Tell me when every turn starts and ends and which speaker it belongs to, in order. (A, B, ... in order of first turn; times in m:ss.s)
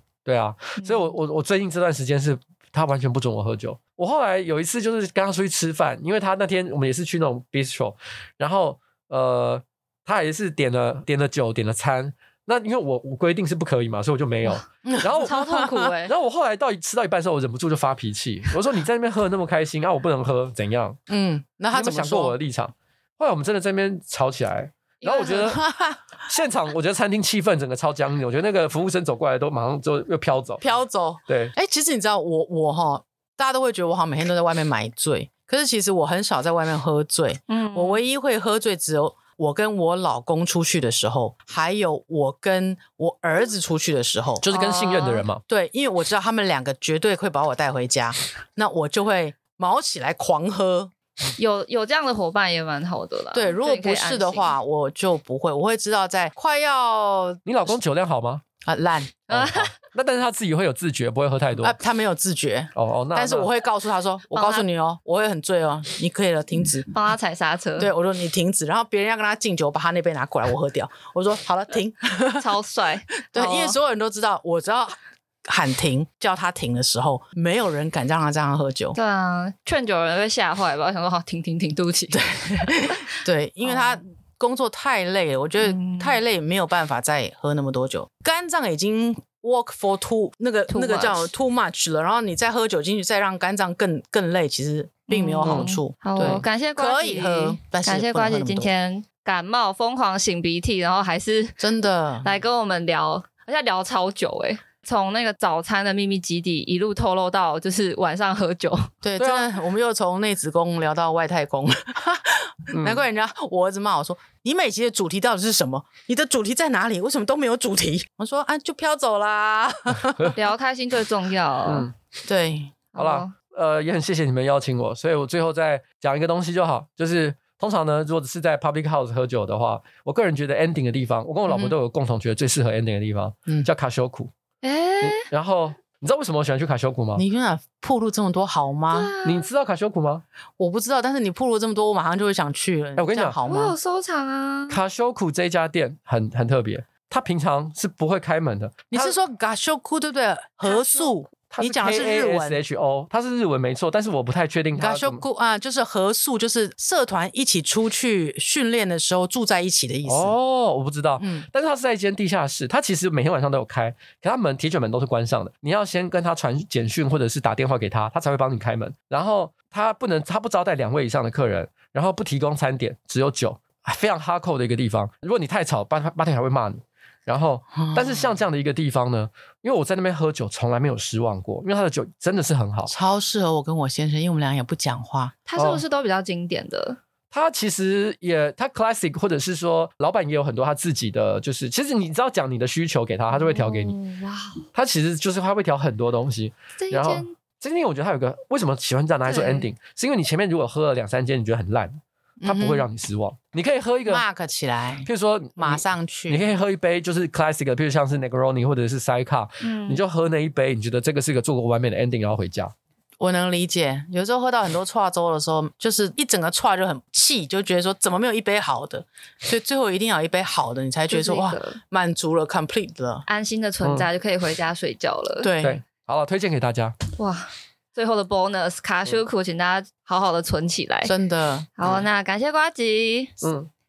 0:00.3-0:15.4 A
0:00.8-0:01.1 B
0:14.8-0:15.9 C
0:15.2-0:16.1 B
0:16.0-0:21.0 A
0:21.1-0:22.4 C
0:21.7-0:25.6 A
0:25.0-0:25.6 B
0:25.4-0:26.0 C
0:26.3-0:30.6 A
0:30.6-0:44.4 C
0:31.3-0:31.5 A
0:37.5-0:38.0 B
0:44.4-0:45.4 A
0:44.5-0:45.3 B
0:45.5-0:50.9 C
0:51.4-0:54.6 B
0:53.3-0:57.7 C
0:57.5-0:58.4 A
0:58.6-0:59.7 C
0:59.3-1:01.8 A
1:01.6-1:06.9 C
1:02.8-1:03.5 A
1:04.3-1:04.6 B
1:06.9-1:07.9 B
1:07.8-1:12.4 C
1:12.4-1:13.8 B
1:13.3-1:19.0 C
1:19.0-1:23.1 B
1:22.1-1:38.7 C
1:23.6-1:24.0 B
1:25.6-1:26.2 B
1:30.7-1:31.3 B
1:35.1-1:41.6 B
1:35.4-1:36.4 A
1:41.6-1:42.3 C
1:42.2-1:48.9 B
1:49.0-2:00.4 C
1:49.2-1:49.5 A
1:52.7-1:53.0 A
2:00.4-2:01.9 B
2:01.7-2:01.9 A
2:02.3-2:02.8 C
2:02.9-2:03.3 B
2:03.0-2:14.3 A
2:14.6-2:15.3 B
2:15.0-2:17.2 A
2:17.2-2:19.1 C
2:18.9-2:19.5 B
2:19.2-2:20.2 A
2:20.6-2:23.8 C
2:23.0-2:23.4 A
2:23.5-2:24.8 B
2:24.7-2:29.2 A
2:28.9-2:32.6 C
2:30.7-2:31.1 B
2:31.5-2:35.2 A
2:34.8-2:40.3 C
2:40.1-3:02.9 A
2:41.2-2:41.5 C
2:57.7-2:58.3 C
3:02.9-3:05.4 C
3:05.5-3:07.0 B
3:05.6-3:05.8 A
3:07.3-3:14.0 A
3:13.3-3:14.6 B
3:14.7-3:24.2 A
3:16.8-3:17.4 B
3:19.3-3:19.7 B
3:22.4-3:22.9 C
3:24.1-3:26.4 C
3:25.1-3:32.7 A
3:29.6-3:30.0 B
3:33.2-3:43.3 C
3:41.1-3:41.8 B
3:43.3-3:45.5 B
3:45.4-3:45.8 C
3:45.6-3:47.0 A
3:47.2-3:51.1 B
3:51.0-3:51.8 C
3:51.8-3:53.4 B
3:53.4-3:53.7 A